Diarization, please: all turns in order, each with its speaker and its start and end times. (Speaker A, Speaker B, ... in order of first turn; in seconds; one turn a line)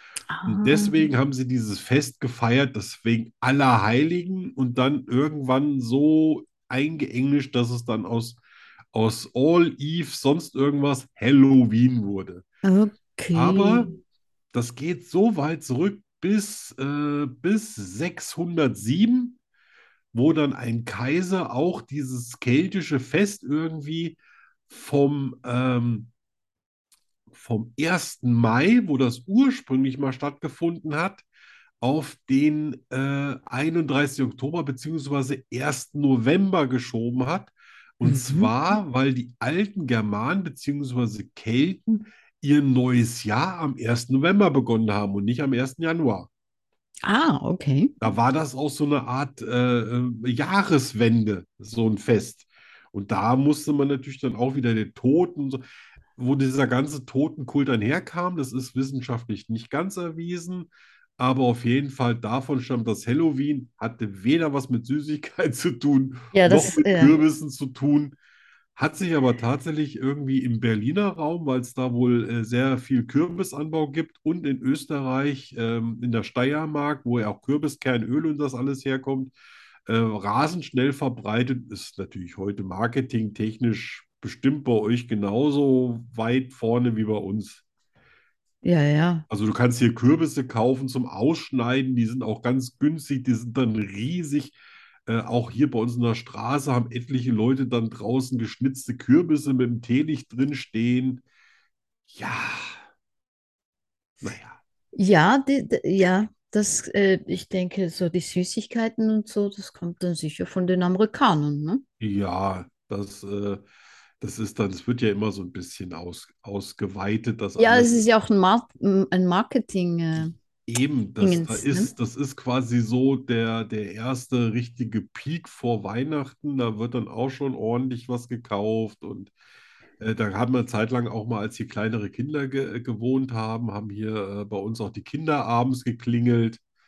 Speaker A: 0.3-1.1
Speaker B: 0.5-8.4
Speaker B: 8.9-12.4
Speaker A: 12.6-14.0
Speaker B: 13.3-13.9
Speaker B: 14.5-19.4
Speaker B: 20.1-24.2
Speaker B: 24.7-26.1
Speaker B: 27.3-31.2
Speaker B: 31.8-46.3
Speaker A: 38.0-38.5
Speaker A: 47.0-47.9
Speaker B: 48.0-55.6
Speaker B: 56.2-68.2
Speaker A: 66.3-67.2
Speaker B: 68.8-79.3
Speaker B: 79.9-87.6
Speaker A: 88.6-89.3
Speaker B: 89.3-101.2
Speaker B: 102.1-102.8
Speaker B: 104.2-104.6
Speaker A: 105.0-111.8
Speaker B: 112.0-113.6
Speaker B: 114.2-118.0
Speaker A: 117.6-120.3
Speaker B: 120.7-129.3
Speaker A: 121.2-121.9
Speaker B: 130.0-136.6